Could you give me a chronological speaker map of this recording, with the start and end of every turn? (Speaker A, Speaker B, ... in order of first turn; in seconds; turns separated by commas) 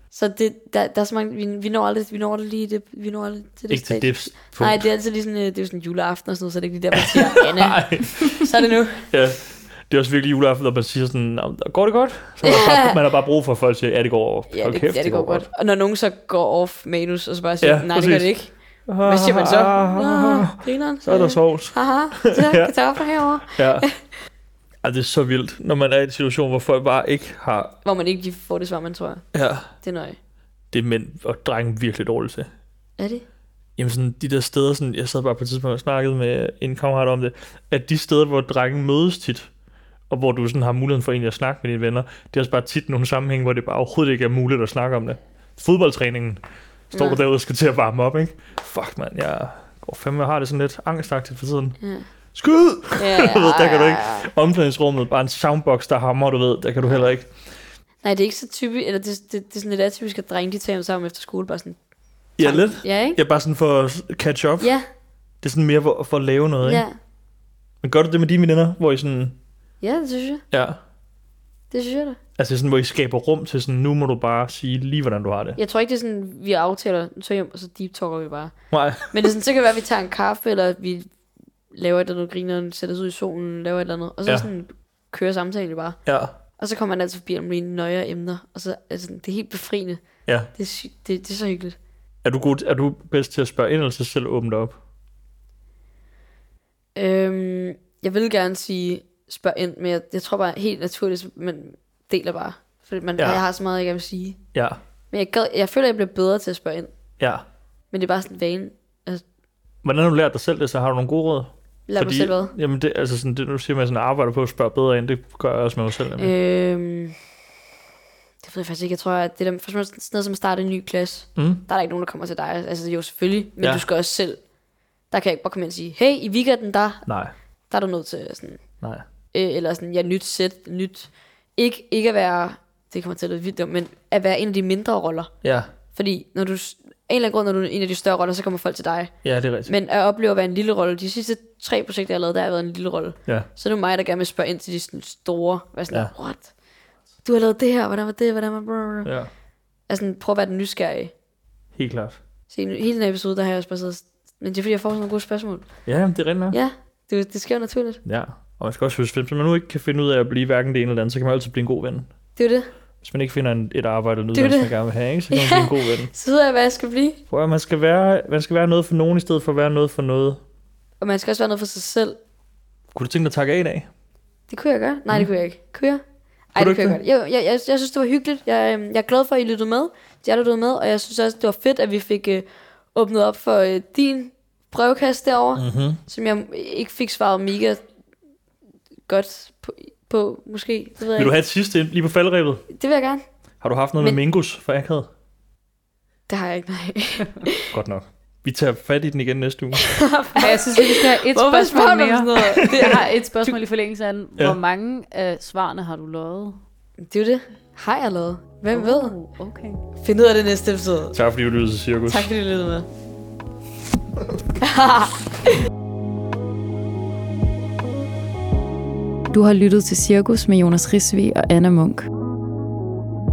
Speaker A: 0.1-9.1, Speaker B: 3.7-4.8, Speaker B: 6.9-8.4, Speaker B: 9.1-15.5, Speaker A: 12.4-13.0, Speaker A: 14.5-23.9, Speaker B: 17.6-18.3, Speaker B: 18.9-22.7, Speaker B: 23.4-23.9, Speaker B: 24.8-27.7, Speaker A: 27.8-30.2, Speaker B: 29.3-29.7, Speaker B: 30.7-32.5, Speaker A: 33.0-33.2, Speaker B: 33.8-39.5, Speaker B: 40.1-46.4, Speaker A: 46.9-47.2, Speaker B: 46.9-51.8, Speaker A: 51.8-52.0, Speaker B: 52.3-57.3, Speaker A: 53.0-54.3, Speaker A: 58.0-61.8, Speaker B: 62.4-64.7, Speaker A: 62.4-63.2, Speaker A: 64.6-64.8, Speaker B: 65.4-66.8, Speaker A: 66.6-67.0, Speaker B: 67.8-69.4, Speaker A: 69.8-70.4, Speaker B: 70.5-70.8, Speaker A: 71.7-72.2, Speaker B: 72.4-75.6, Speaker A: 75.6-78.5, Speaker B: 78.7-79.1, Speaker A: 79.1-81.1, Speaker A: 81.7-86.0, Speaker B: 86.0-86.3, Speaker A: 86.6-90.0, Speaker A: 90.5-91.8, Speaker B: 92.2-94.8, Speaker A: 96.9-104.4, Speaker B: 103.2-103.4, Speaker B: 104.5-104.8, Speaker A: 105.1-106.9, Speaker B: 107.2-107.4, Speaker A: 107.9-109.2, Speaker B: 109.8-116.3, Speaker A: 111.9-112.5, Speaker A: 116.2-117.2, Speaker A: 118.4-124.4, Speaker B: 121.4-121.6, Speaker A: 125.1-127.1, Speaker B: 127.1-127.3, Speaker A: 127.7-128.6, Speaker A: 129.3-135.3, Speaker B: 135.4-135.7, Speaker A: 135.9-139.1, Speaker B: 139.2-139.7, Speaker A: 139.7-146.5, Speaker A: 147.2-149.1, Speaker B: 149.0-149.3, Speaker A: 149.9-151.1, Speaker B: 151.8-152.2, Speaker A: 152.5-155.7, Speaker B: 155.8-156.6, Speaker A: 156.5-158.0, Speaker B: 158.0-162.1, Speaker A: 162.3-162.7, Speaker B: 163.0-166.1, Speaker A: 164.3-164.7, Speaker A: 165.3-167.2, Speaker B: 167.3-170.4, Speaker A: 171.0-172.2, Speaker B: 172.9-173.9, Speaker A: 174.5-176.0, Speaker A: 176.5-187.8, Speaker B: 176.6-177.0, Speaker B: 185.5-186.0, Speaker A: 189.1-191.3, Speaker B: 191.2-192.6, Speaker A: 192.7-193.2, Speaker B: 193.6-195.1, Speaker A: 194.0-194.2, Speaker A: 196.3-197.7, Speaker B: 197.7-199.8, Speaker A: 199.8-203.6, Speaker C: 200.3-206.6, Speaker A: 207.0-209.1, Speaker C: 208.7-209.8, Speaker A: 210.0-211.2, Speaker B: 211.1-212.3, Speaker A: 212.1-212.9, Speaker A: 214.6-215.5, Speaker D: 219.3-222.1